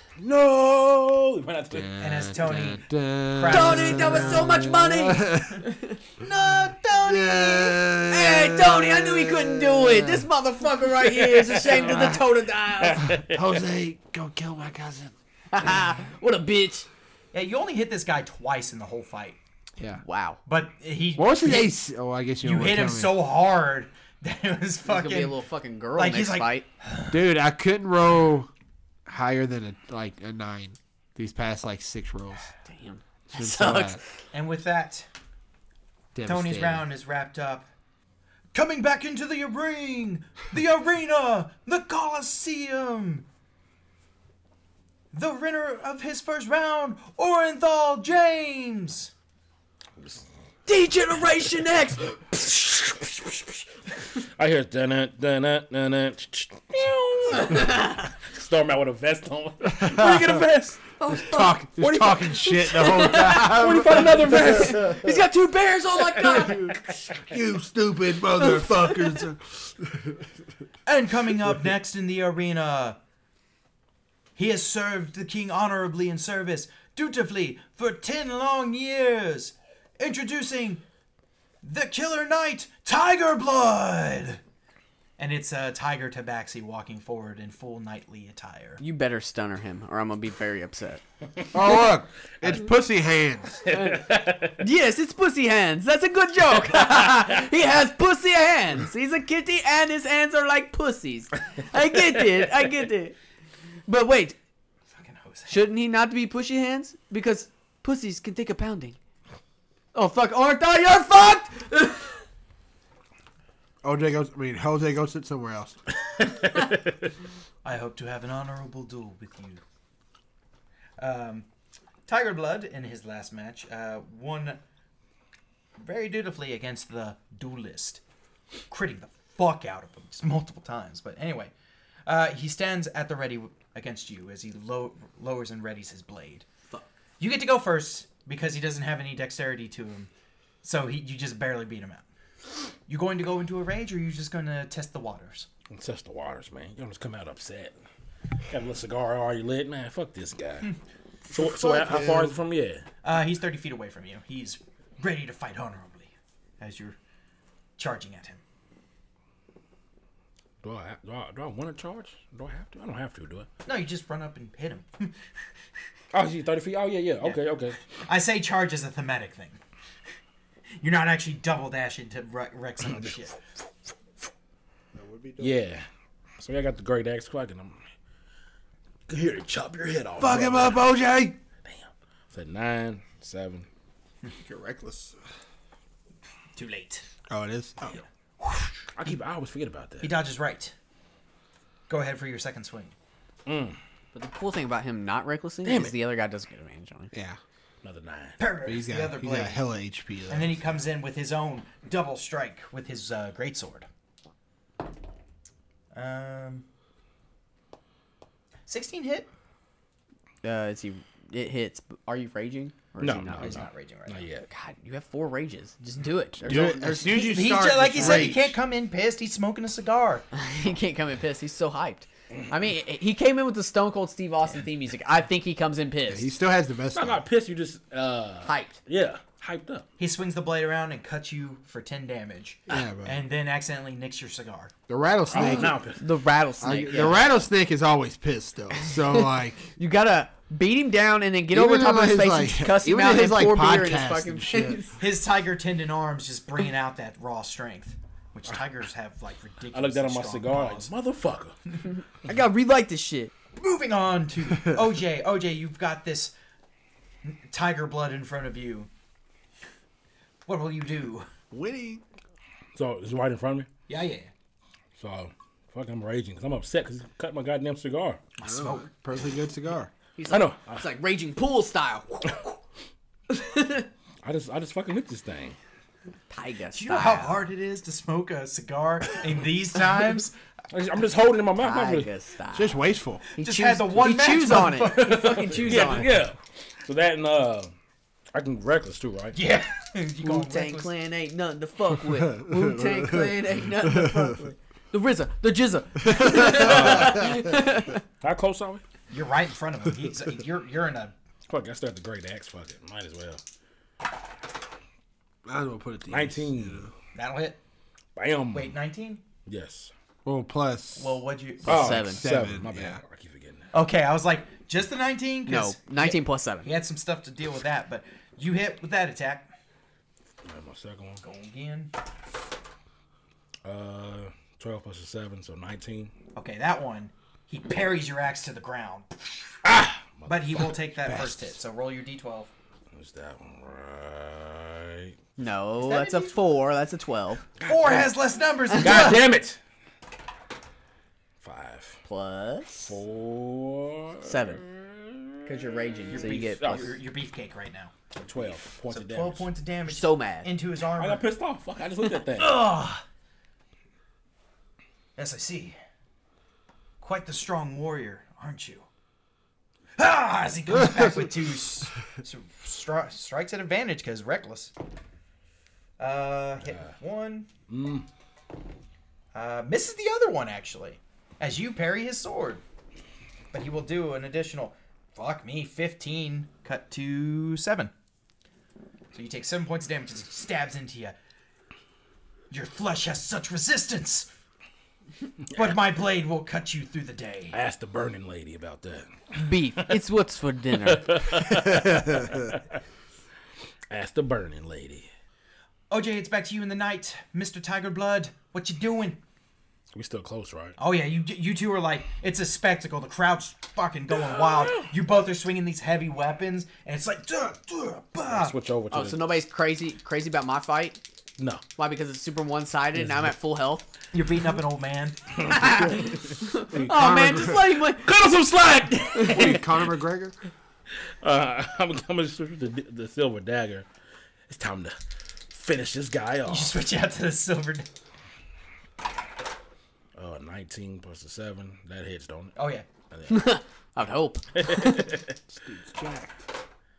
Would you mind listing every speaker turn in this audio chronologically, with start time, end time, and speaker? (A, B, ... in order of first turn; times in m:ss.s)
0:00.2-0:01.9 A
0:01.7-0:05.6 B
0:02.0-0:04.5 C
0:03.5-0:06.0 D
0:06.2-0:07.8 C
0:06.9-0:10.3 B
0:08.1-0:13.0 D
0:11.0-0:12.0 A
0:11.7-0:12.2 B
0:12.8-0:13.4 A
0:13.1-0:15.1 B
0:15.5-0:16.9 D
0:17.3-0:19.4 C
0:19.8-0:20.0 B
0:20.0-0:20.4 D
0:20.4-0:21.7 C
0:21.2-0:23.1 B
0:22.4-0:25.4 C
0:24.8-0:26.6 D
0:26.0-0:27.1 C
0:27.1-0:28.5 B
0:29.0-0:32.5 B
0:32.6-0:34.0 D
0:33.3-0:34.0 B
0:34.3-0:35.1 C
0:36.1-0:36.8 B
0:36.2-0:37.7 C
0:38.5-0:43.2 C
0:45.1-0:49.1 C
0:50.0-0:50.2 A
0:50.7-0:52.5 D
0:52.4-0:53.4 A
0:54.1-1:00.9 A
0:57.3-0:58.0 D
0:59.7-1:00.4 B
1:01.0-1:01.6 D
1:01.1-1:05.0 B
1:01.8-1:05.1 A
1:02.6-1:06.7 D
1:06.2-1:10.3 B
1:06.3-1:07.2 A
1:08.4-1:09.2 D
1:10.8-1:13.0 C
1:14.4-1:20.8 C
1:21.6-1:24.4 C
1:25.2-1:28.8 C
1:28.8-1:31.0 D
1:31.5-1:33.6 B
1:33.6-1:34.6 A
1:33.7-1:43.2 D
1:43.8-1:44.4 D
1:44.9-1:45.6 C
1:45.5-1:49.0 D
1:49.9-1:52.2 D
1:53.8-1:55.8 B
1:56.2-1:57.0 A
1:57.6-1:59.6 C
2:01.0-2:01.5 C
2:02.0-2:04.6 C
2:05.8-2:08.0 C
2:08.7-2:11.5 C
2:12.0-2:16.4 C
2:17.2-2:20.1 C
2:20.6-2:22.0 C
2:22.9-2:25.5 C
2:25.7-2:27.8 A
2:28.5-2:30.7 A
2:31.3-2:32.4 B
2:31.3-2:32.8 A
2:33.0-2:37.0 C
2:37.8-2:38.4 C
2:40.6-2:43.5 A
2:43.6-2:45.2 C
2:46.1-2:47.8 A
2:47.9-2:49.6 C
2:50.8-2:53.4 C
2:52.9-2:53.2 A
2:54.9-2:55.6 B
2:55.4-2:55.8 A
2:56.4-2:57.8 A
2:59.1-3:00.9 A
3:00.2-3:01.4 B
3:01.6-3:03.7 A
3:04.4-3:05.2 B
3:06.5-3:07.1 C
3:07.3-3:08.0 B
3:08.9-3:10.1 A
3:10.0-3:10.7 C
3:11.9-3:12.9 C
3:13.4-3:13.8 A
3:14.1-3:17.1 D
3:15.6-3:16.0 A
3:17.1-3:17.4 B
3:17.8-3:18.4 A
3:18.4-3:19.6 C
3:18.6-3:20.7 B
3:20.3-3:23.9 C
3:25.9-3:26.6 C
3:28.7-3:29.3 C
3:30.4-3:33.6 D
3:33.0-3:34.5 A
3:33.4-3:34.3 C
3:34.5-3:37.4 D
3:36.4-3:38.5 B
3:37.1-3:40.2 C
3:37.9-3:38.4 D
3:40.3-3:46.3 D
3:46.1-3:47.2 B
3:46.9-3:49.8 A
3:48.4-3:48.8 D
3:50.0-3:54.7 C
3:52.7-3:53.2 B
3:54.9-3:55.8 B
3:55.3-3:56.0 A
3:55.4-3:57.3 D
3:56.6-3:59.7 B
3:58.9-4:05.0 D
4:01.5-4:04.8 B
4:05.0-4:10.9 C
4:09.7-4:11.7 A
4:12.2-4:13.3 D
4:13.6-4:16.3 C
4:17.2-4:18.9 C
4:20.4-4:21.3 C
4:21.5-4:22.0 B
4:22.7-4:23.7 A
4:23.9-4:24.3 C
4:24.9-4:28.2 A
4:28.4-4:28.9 C
4:28.4-4:29.9 B
4:30.2-4:32.5 D
4:30.3-4:30.8 A
4:33.3-4:33.9 D
4:34.2-4:35.6 A
4:36.3-4:37.4 D
4:36.7-4:40.4 C
4:40.7-4:42.1 A
4:41.6-4:42.8 D
4:42.5-4:43.2 B
4:43.3-4:46.2 D
4:43.4-4:45.9 C
4:45.0-4:47.7 A
4:48.3-4:49.4 A
4:49.3-4:50.9 C
4:50.2-4:58.0 D
4:52.1-4:54.4 B
4:56.0-4:57.5 B
4:56.4-4:57.6 A
4:58.2-4:58.8 A
4:59.1-5:01.1 C
5:01.5-5:03.4 A
5:05.4-5:06.9 B
5:06.1-5:06.9 A
5:07.1-5:07.6 C
5:08.2-5:08.8 A
5:08.5-5:09.2 C
5:09.4-5:09.9 A
5:10.2-5:11.2 B
5:11.0-5:11.9 C
5:11.6-5:13.7 A
5:11.7-5:12.2 D
5:11.7-5:13.0 B
5:13.7-5:19.5 C
5:15.5-5:16.7 D
5:20.4-5:21.2 A
5:21.2-5:21.9 C
5:23.6-5:26.1 A
5:26.3-5:29.2 C
5:29.6-5:30.7 A
5:30.3-5:32.5 C
5:31.0-5:31.5 B
5:32.9-5:35.2 A
5:35.4-5:37.4 D
5:35.8-5:36.4 C
5:37.6-5:38.1 A
5:37.6-5:39.2 C
5:38.7-5:39.6 A
5:38.7-5:39.2 D
5:41.4-5:42.0 A
5:42.0-5:43.0 D
5:42.8-5:47.0 A
5:44.2-5:44.6 D
5:45.4-5:46.9 D
5:46.1-5:51.2 C
5:48.1-5:49.5 A
5:49.8-5:50.5 D
5:50.8-5:52.6 A
5:52.3-5:53.0 C
5:55.2-5:55.8 C
5:57.0-5:58.9 C
6:00.0-6:04.7 C
6:00.7-6:01.4 B
6:06.0-6:07.5 C
6:06.6-6:06.9 A
6:07.7-6:08.1 A
6:09.3-6:12.6 C
6:13.5-6:17.9 C
6:19.1-6:21.1 C
6:22.5-6:24.3 C
6:25.5-6:27.6 C
6:27.5-6:30.0 A
6:29.3-6:31.2 D
6:30.8-6:32.8 A
6:31.5-6:32.5 B
6:33.9-6:35.1 A
6:35.9-6:39.2 C
6:39.9-6:40.8 A
6:40.8-6:48.5 C
6:44.2-6:44.9 A
6:48.2-6:49.4 A
6:48.9-6:51.0 D
6:51.8-6:53.9 D
6:53.0-6:53.3 A
6:54.1-6:55.8 C
6:55.4-6:58.1 D
6:55.8-6:57.8 B
6:57.9-6:59.8 A
6:59.1-6:59.5 D
6:59.2-7:00.4 B
7:01.1-7:03.9 A
7:04.5-7:05.0 A
7:05.5-7:06.7 A
7:06.4-7:07.9 C
7:10.2-7:12.6 A
7:12.6-7:12.8 C
7:13.1-7:13.5 A
7:13.3-7:15.2 D
7:14.6-7:15.3 A
7:15.5-7:16.5 B